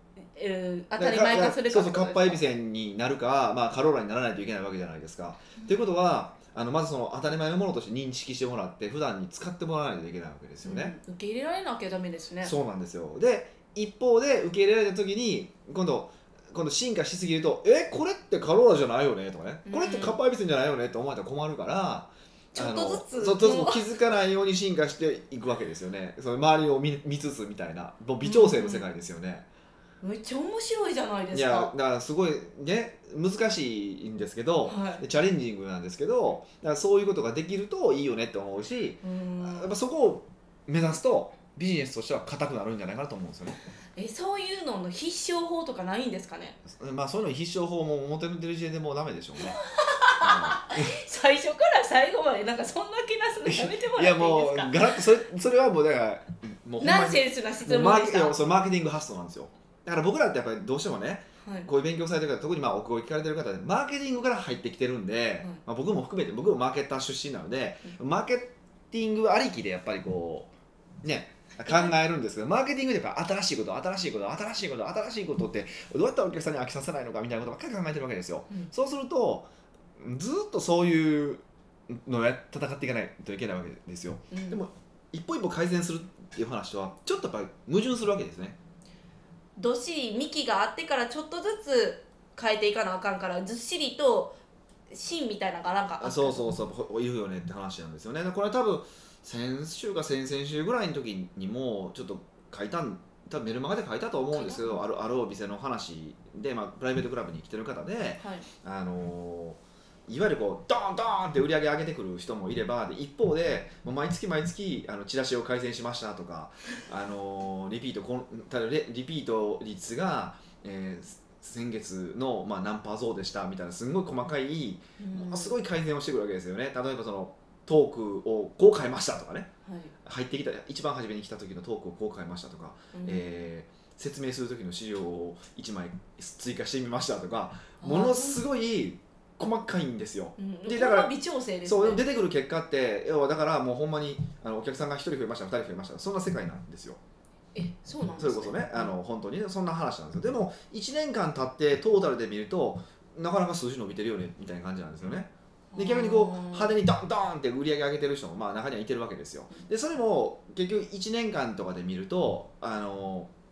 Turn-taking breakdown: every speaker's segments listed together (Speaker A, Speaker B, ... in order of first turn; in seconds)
Speaker A: 0.2-2.4, 10.6-12.5, 19.7-20.2, 22.5-23.8, 28.2-28.8, 30.0-31.7, 34.6-35.0, 39.0-39.7, 44.0-46.6, 49.5-55.0, 56.8-58.4, 61.4-61.7, 71.7-71.9, 84.3-84.6, 89.6-94.4, 94.9-96.5, 104.3-104.8, 108.2-108.5, 125.0-125.6, 129.6-129.9, 132.9-133.4, 137.8-138.4, 140.4-142.0, 147.5-148.9, 155.7-156.8
Speaker B: 0.9-11.0, 12.4-29.4, 31.3-43.6, 46.6-49.6, 50.2-51.0, 53.4-70.5, 71.0-88.6, 96.0-129.5, 130.0-147.0, 148.2-163.3